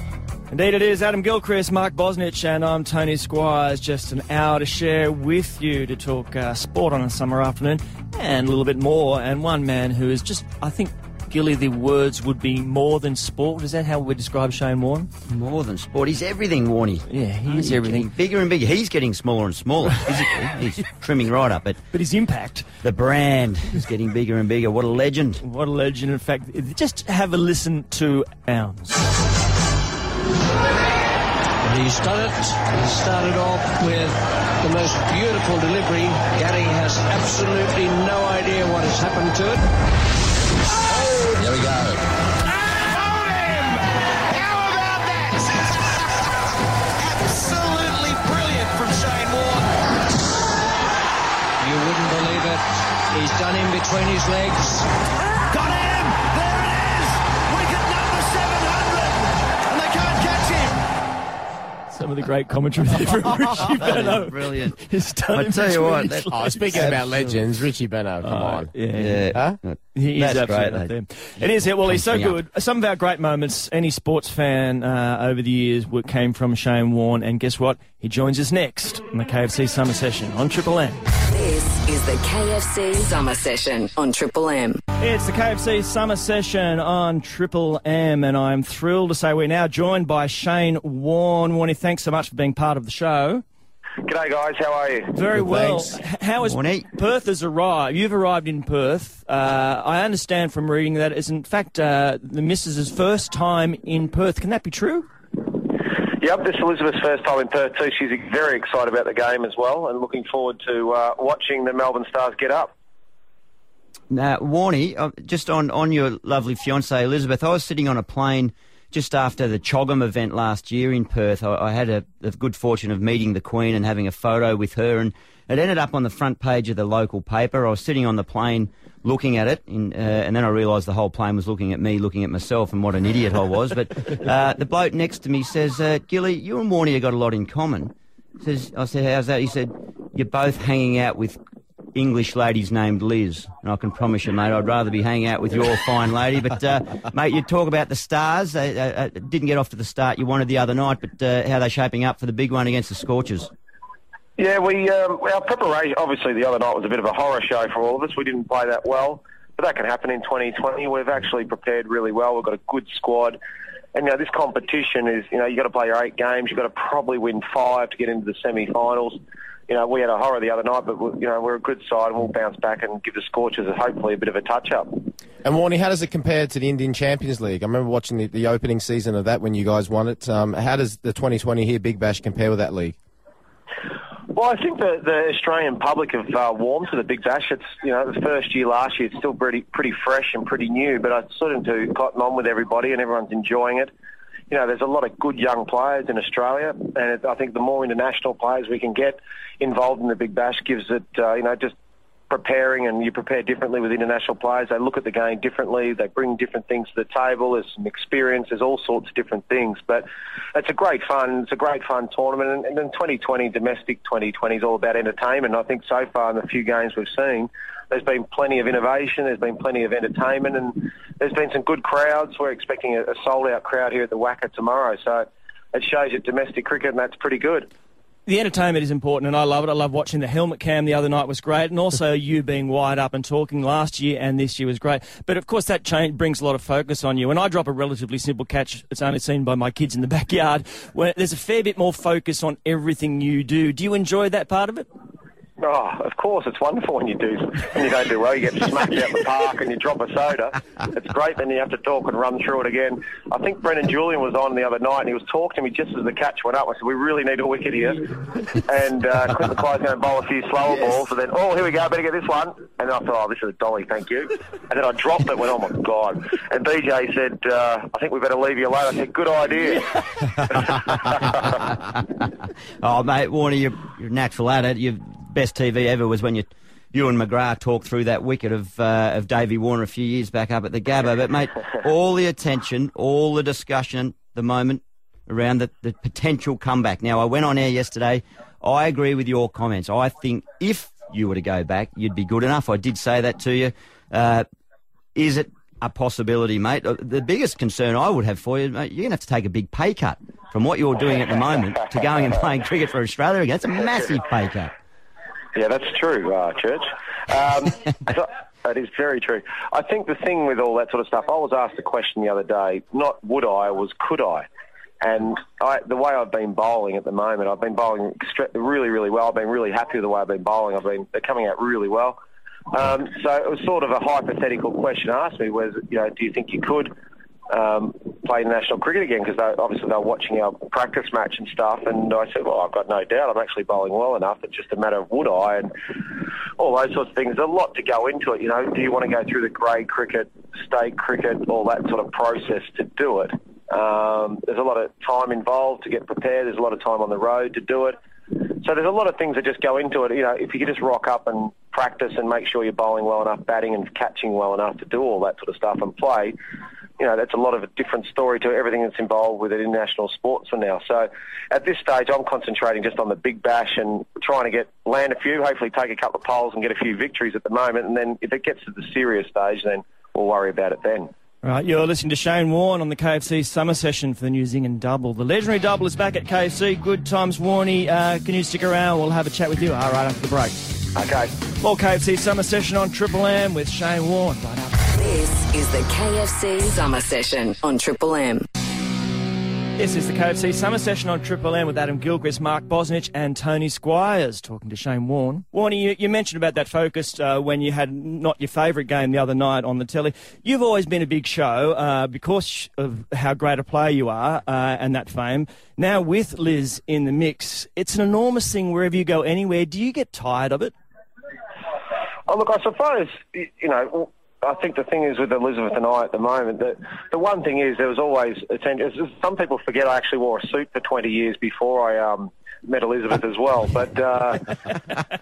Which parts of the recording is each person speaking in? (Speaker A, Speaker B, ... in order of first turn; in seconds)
Speaker A: 0.5-15.1, 17.1-18.1, 21.9-22.7, 25.4-29.1, 61.9-67.3, 68.2-69.3, 69.9-81.0, 85.0-93.4, 95.1-105.1, 228.2-244.9, 371.4-380.6, 381.6-384.7, 389.8-410.7
Speaker B: 15.3-21.8, 22.8-25.4, 63.6-67.1, 68.9-72.3, 96.4-96.9, 114.1-141.4, 141.9-153.5, 272.8-294.4, 295.1-304.7
Speaker C: 31.6-39.6, 40.9-41.6, 42.5-45.9, 47.0-49.8, 51.6-54.9, 55.4-60.8
Speaker D: 66.3-68.7, 95.3-96.0, 175.4-182.9
Speaker E: 81.1-84.8, 384.7-388.4
Speaker F: 94.0-95.1, 105.5-112.7, 154.4-163.4, 163.9-175.1, 184.3-193.9, 194.5-201.7, 202.3-227.7, 245.6-271.5, 305.5-314.5, 315.0-322.2, 322.7-326.9, 327.5-356.4, 357.0-371.1, 380.9-381.3, 412.3-424.8